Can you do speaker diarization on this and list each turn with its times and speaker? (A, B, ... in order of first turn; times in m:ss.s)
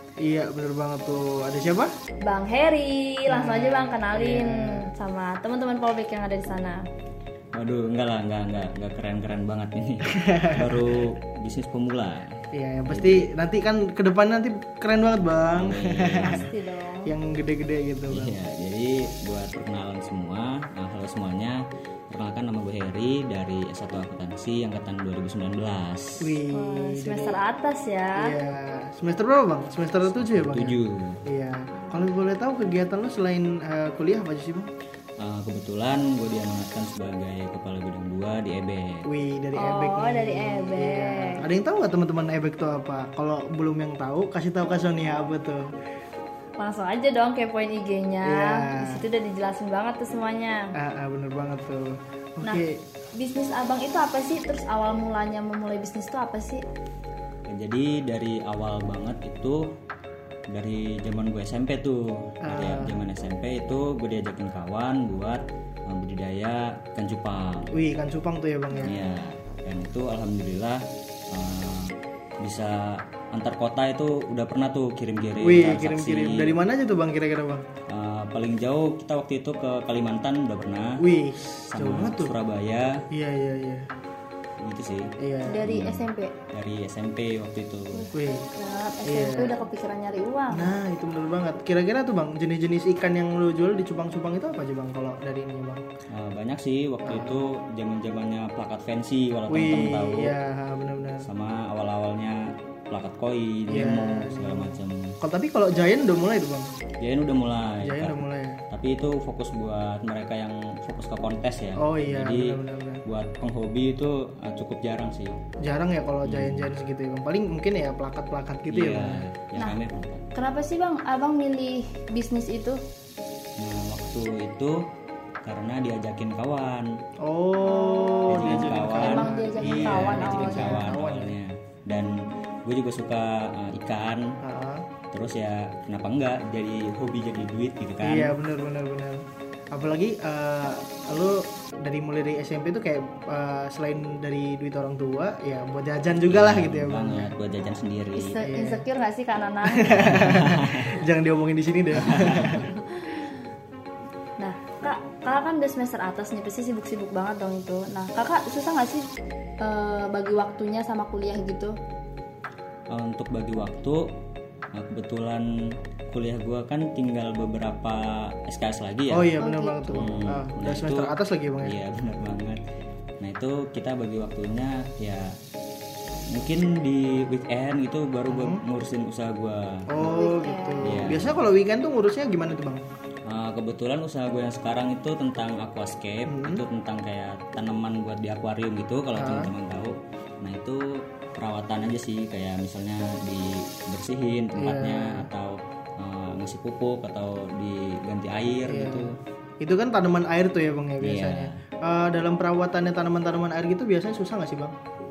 0:00.2-0:01.9 A
0:02.2-0:06.8 B
0:03.3-0:04.9 A
0:07.5-0:12.3 C
0:10.1-0:10.8 A
0:12.5-0:16.5 A
0:12.9-0:13.3 C
0:15.5-0:16.5 C
0:16.2-0:17.1 B
0:17.0-0:18.4 A
0:18.1-0:26.4 C
0:26.2-0:27.4 A
0:26.5-0:28.3 B
0:28.2-0:34.7 A
0:30.1-0:31.2 C
0:35.2-0:39.1 C
0:39.0-0:45.7 A
0:39.6-0:41.4 B
0:46.6-0:50.7 B
0:48.2-0:49.0 A
0:50.8-0:52.8 A
0:53.2-0:56.6 B
0:57.5-0:59.6 C
1:00.5-1:07.7 C
1:02.4-1:03.0 A
1:07.7-1:09.0 A
1:08.8-1:16.6 C
1:15.4-1:17.6 A
1:17.9-1:21.0 C
1:21.0-1:22.3 A
1:21.7-1:23.0 C
1:23.1-1:23.9 A
1:24.6-1:25.1 C
1:25.2-1:25.6 A
1:25.5-1:26.3 B
1:25.6-1:26.0 C
1:26.5-1:28.1 C
1:27.9-1:30.7 B
1:28.1-1:28.5 A
1:29.0-1:29.6 A
1:30.5-1:35.8 A
1:36.1-1:40.4 C
1:37.0-1:37.4 A
1:39.5-1:41.2 A
1:41.2-1:45.2 C
1:43.7-1:46.7 A
1:47.0-1:48.2 C
1:47.8-1:48.6 A
1:48.7-1:55.4 C
1:51.8-1:53.0 A
1:55.6-1:59.2 A
1:56.2-1:56.7 C
1:58.7-2:00.2 C
2:00.3-2:02.8 B
2:03.6-2:04.8 C
2:05.4-2:06.9 C
2:07.2-2:11.3 A
2:07.6-2:10.9 B
2:08.3-2:14.4 C
2:14.4-2:14.8 A
2:15.1-2:18.4 C
2:18.0-2:27.3 A
2:26.2-2:28.4 C
2:27.6-2:30.2 B
2:28.4-2:28.8 A
2:29.8-2:32.7 A
2:30.1-2:31.0 C
2:32.0-2:32.6 C
2:32.5-2:33.2 B
2:34.4-2:39.1 B
2:39.6-2:41.8 B
2:42.9-2:44.1 C
2:44.7-2:45.5 C
2:46.1-2:49.3 C
2:49.1-2:51.8 A
2:49.4-2:50.0 B
2:49.9-2:52.6 C
2:53.2-2:55.4 C
2:56.3-2:59.9 C
2:58.3-2:58.6 A
2:59.9-3:02.8 A
3:00.0-3:01.1 B
3:00.8-3:01.3 C
3:03.2-3:19.2 C
3:06.2-3:06.6 A
3:09.1-3:09.5 A
3:14.5-3:15.3 A
3:18.6-3:24.7 A
3:21.0-3:21.5 C